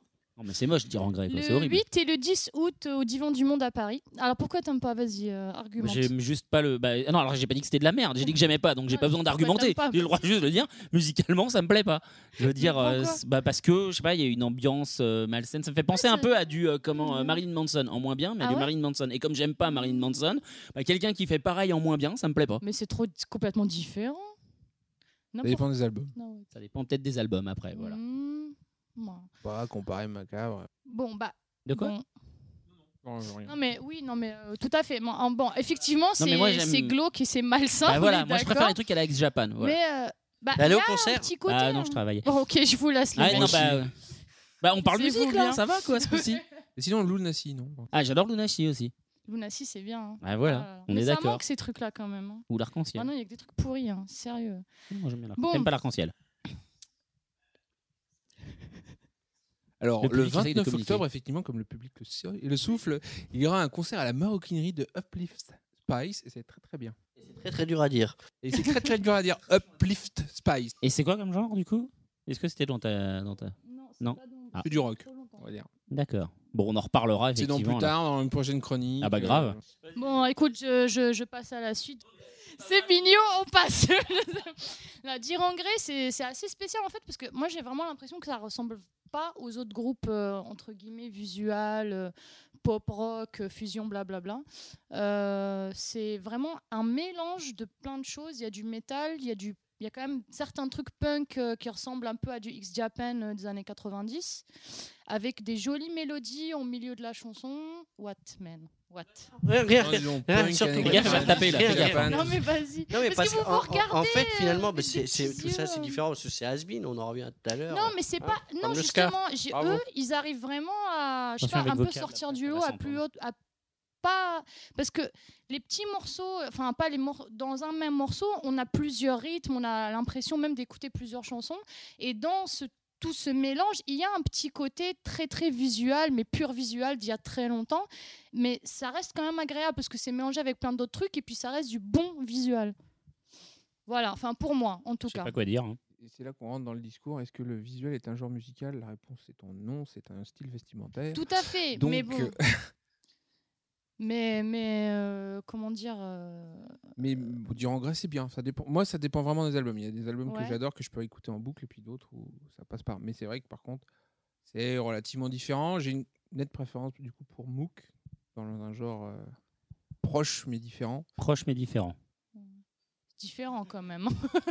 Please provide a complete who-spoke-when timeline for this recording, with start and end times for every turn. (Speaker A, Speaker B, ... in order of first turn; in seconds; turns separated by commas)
Speaker A: 0.4-1.8, Speaker B: 1.3-6.1, Speaker A: 5.8-22.6, Speaker B: 8.9-10.1, Speaker B: 12.4-13.2, Speaker B: 15.9-16.4, Speaker B: 16.9-17.4, Speaker B: 18.4-18.7, Speaker B: 19.6-20.2, Speaker B: 22.6-24.3, Speaker B: 25.3-26.5, Speaker C: 25.4-26.1, Speaker A: 26.5-28.0, Speaker B: 27.7-29.3, Speaker C: 29.4-30.7, Speaker B: 30.9-32.0, Speaker A: 31.7-31.9, Speaker C: 33.0-33.5, Speaker B: 33.5-38.8, Speaker A: 36.2-37.0, Speaker A: 37.9-39.8, Speaker B: 39.6-43.8, Speaker D: 40.5-41.3, Speaker A: 41.5-42.3, Speaker A: 43.1-43.9, Speaker C: 43.2-43.8, Speaker A: 44.6-46.4, Speaker B: 44.8-46.4, Speaker C: 46.8-47.9, Speaker A: 47.9-48.9, Speaker B: 49.3-54.6, Speaker A: 50.2-51.4, Speaker A: 52.5-53.1, Speaker A: 54.9-56.1, Speaker B: 55.4-55.7, Speaker C: 59.8-67.0, Speaker A: 60.0-61.0, Speaker D: 67.2-68.2, Speaker C: 68.4-70.8, Speaker A: 70.8-74.7, Speaker B: 73.6-75.5, Speaker C: 74.6-75.7, Speaker A: 75.9-77.9, Speaker C: 77.3-79.6, Speaker A: 79.0-79.5, Speaker B: 79.9-104.5, Speaker B: 105.1-109.3, Speaker D: 109.4-112.2, Speaker C: 109.7-112.3, Speaker A: 110.8-112.1, Speaker B: 111.0-116.0, Speaker D: 112.9-119.8, Speaker B: 117.7-123.4, Speaker A: 121.4-123.0, Speaker B: 124.0-142.7, Speaker B: 143.9-145.3, Speaker A: 145.1-145.8, Speaker C: 146.0-152.7, Speaker B: 151.1-152.3, Speaker B: 154.0-156.8, Speaker C: 157.0-163.8, Speaker B: 160.2-160.6, Speaker C: 164.4-169.3, Speaker C: 170.0-171.1, Speaker A: 171.2-171.9, Speaker B: 173.2-174.1